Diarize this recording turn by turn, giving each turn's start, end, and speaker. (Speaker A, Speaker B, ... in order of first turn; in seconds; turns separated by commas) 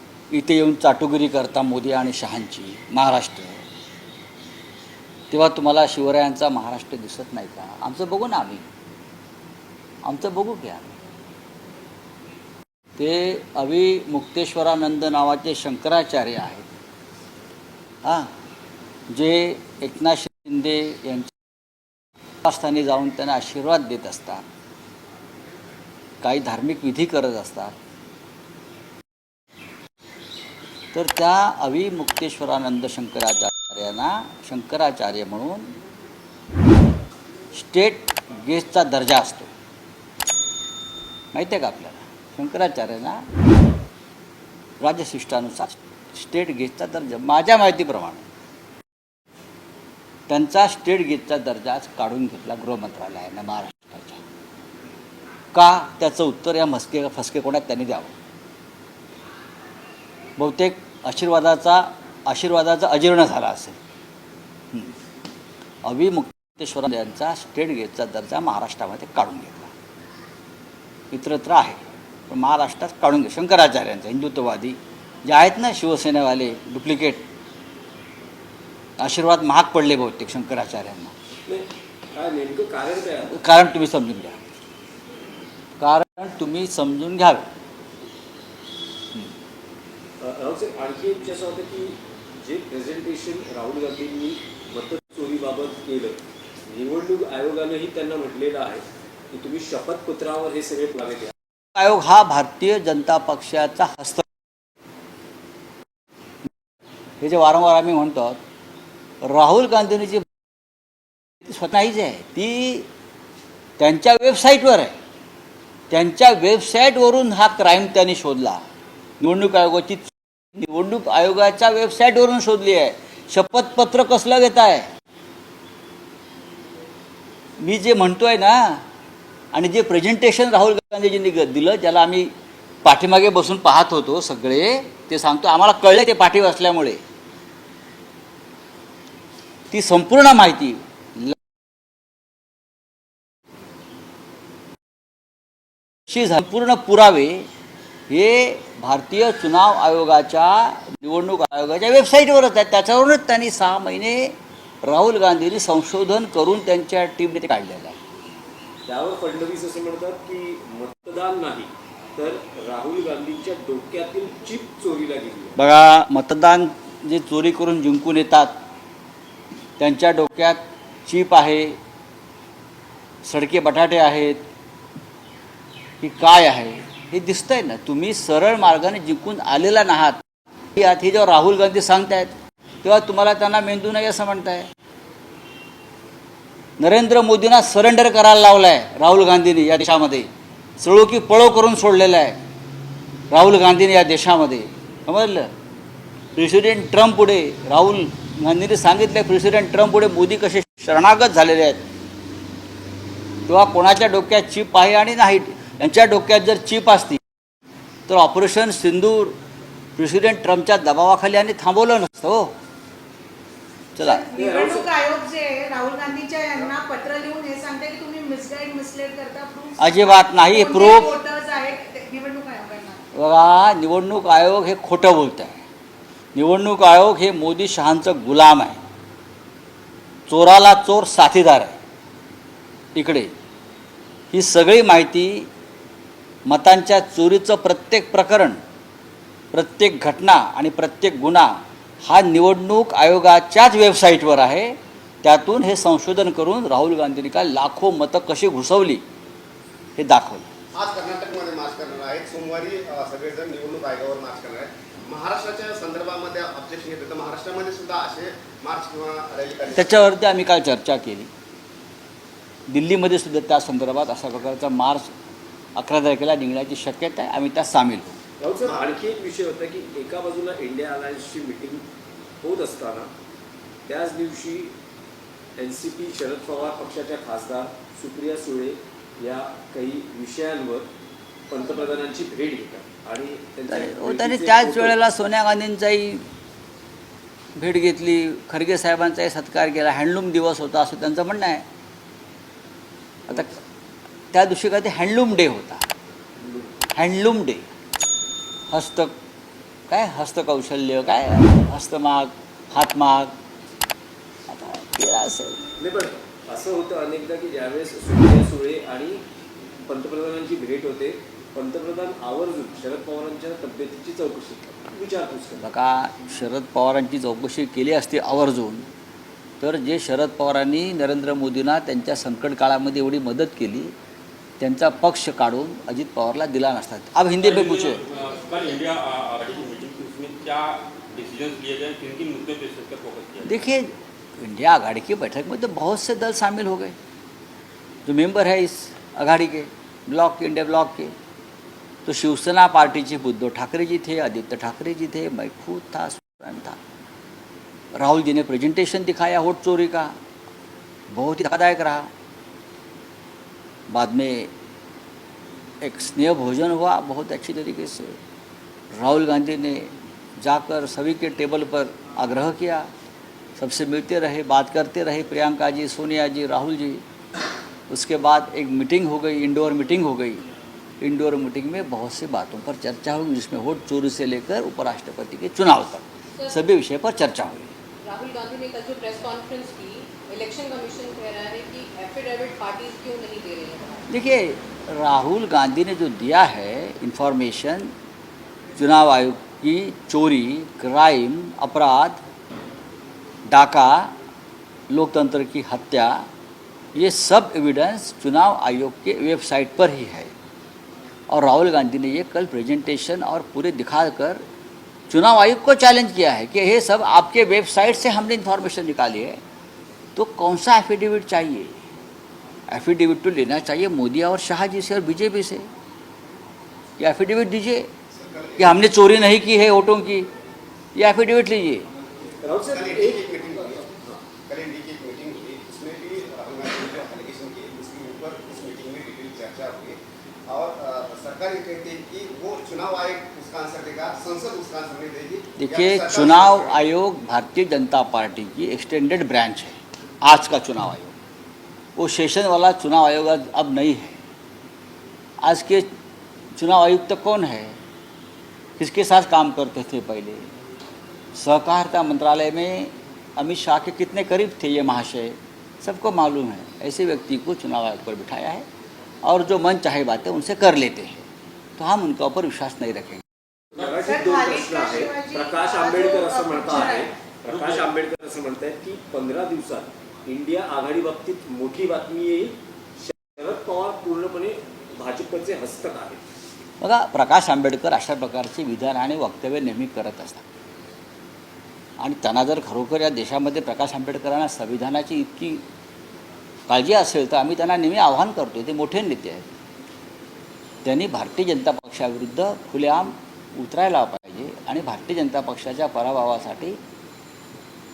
Speaker A: 0.3-3.6, Speaker A: 5.3-8.7, Speaker A: 10.0-11.0, Speaker A: 13.0-16.7, Speaker A: 18.0-18.3, Speaker A: 19.1-21.4, Speaker A: 22.4-24.4, Speaker A: 26.2-27.7, Speaker A: 30.9-35.7, Speaker A: 37.5-39.5, Speaker A: 41.3-43.3, Speaker A: 44.8-48.2, Speaker A: 50.3-54.2, Speaker A: 55.5-58.1, Speaker A: 60.4-63.8, Speaker A: 65.8-69.7, Speaker A: 71.1-77.3, Speaker A: 79.0-81.1, Speaker B: 81.5-83.4, Speaker A: 83.3-84.4, Speaker A: 85.8-87.5, Speaker B: 90.2-101.3, Speaker A: 101.8-104.3, Speaker A: 107.2-108.4, Speaker A: 109.2-110.3, Speaker A: 111.4-112.9, Speaker A: 113.8-115.0, Speaker A: 115.9-118.6, Speaker A: 119.2-124.9, Speaker A: 127.6-128.8, Speaker A: 129.5-132.3, Speaker A: 132.8-137.0, Speaker A: 139.7-141.4, Speaker A: 146.1-147.5, Speaker A: 148.1-158.0, Speaker B: 158.9-165.6, Speaker A: 165.6-168.5, Speaker A: 169.8-171.8, Speaker A: 173.2-174.4, Speaker A: 176.0-180.2, Speaker A: 180.7-184.7, Speaker A: 186.8-190.3, Speaker A: 190.8-192.4, Speaker A: 193.3-195.5, Speaker A: 196.4-201.8, Speaker A: 203.5-207.2, Speaker A: 208.1-209.4, Speaker A: 210.0-212.5, Speaker A: 213.9-214.2, Speaker C: 214.0-223.0, Speaker B: 214.3-214.9, Speaker A: 219.8-221.2, Speaker A: 223.1-225.6, Speaker A: 226.3-228.8, Speaker A: 230.3-231.8, Speaker A: 232.9-233.3, Speaker A: 234.3-235.5, Speaker A: 236.5-238.6, Speaker A: 239.5-249.0, Speaker A: 250.0-250.5, Speaker D: 250.7-260.0, Speaker A: 259.7-261.3, Speaker A: 262.7-265.1, Speaker A: 265.8-268.2, Speaker B: 268.4-271.8, Speaker B: 272.4-273.1, Speaker B: 273.9-274.7, Speaker B: 275.6-280.9, Speaker B: 281.5-285.0, Speaker A: 283.7-286.2, Speaker A: 287.6-291.6, Speaker A: 293.3-293.6, Speaker A: 294.3-295.9, Speaker B: 296.4-296.7, Speaker A: 296.9-297.7, Speaker A: 298.7-299.1, Speaker A: 299.9-303.3, Speaker A: 304.5-305.6, Speaker B: 305.8-309.2, Speaker B: 309.9-315.7, Speaker A: 315.6-318.9, Speaker A: 319.6-323.9, Speaker A: 324.6-328.0, Speaker E: 327.4-333.6, Speaker A: 333.4-337.0, Speaker A: 338.1-341.1, Speaker A: 342.1-346.8, Speaker A: 347.9-350.1, Speaker A: 351.1-352.1, Speaker A: 353.9-354.5, Speaker A: 355.8-358.2, Speaker A: 358.9-362.9, Speaker A: 363.6-367.0, Speaker A: 367.9-370.4, Speaker A: 371.0-377.7, Speaker F: 378.0-384.1, Speaker A: 384.1-387.9, Speaker A: 388.8-392.2, Speaker A: 393.5-394.1, Speaker A: 394.9-396.3, Speaker A: 396.9-400.3, Speaker A: 401.3-404.4, Speaker A: 405.1-409.4, Speaker A: 410.2-411.8, Speaker A: 412.7-415.7, Speaker A: 417.0-417.9, Speaker D: 418.1-418.9, Speaker A: 418.6-420.3, Speaker A: 420.9-421.9, Speaker B: 422.4-424.2, Speaker D: 422.7-423.8, Speaker D: 424.5-436.9, Speaker A: 435.6-441.1, Speaker A: 442.0-444.2, Speaker A: 445.4-445.9, Speaker A: 446.6-447.8, Speaker A: 448.8-450.4, Speaker A: 451.4-458.7, Speaker A: 459.2-461.3, Speaker A: 461.8-463.2, Speaker B: 463.7-476.2, Speaker C: 463.9-467.1, Speaker E: 467.6-467.9, Speaker A: 476.8-480.4, Speaker A: 482.0-485.6, Speaker A: 486.7-489.5, Speaker A: 490.9-496.8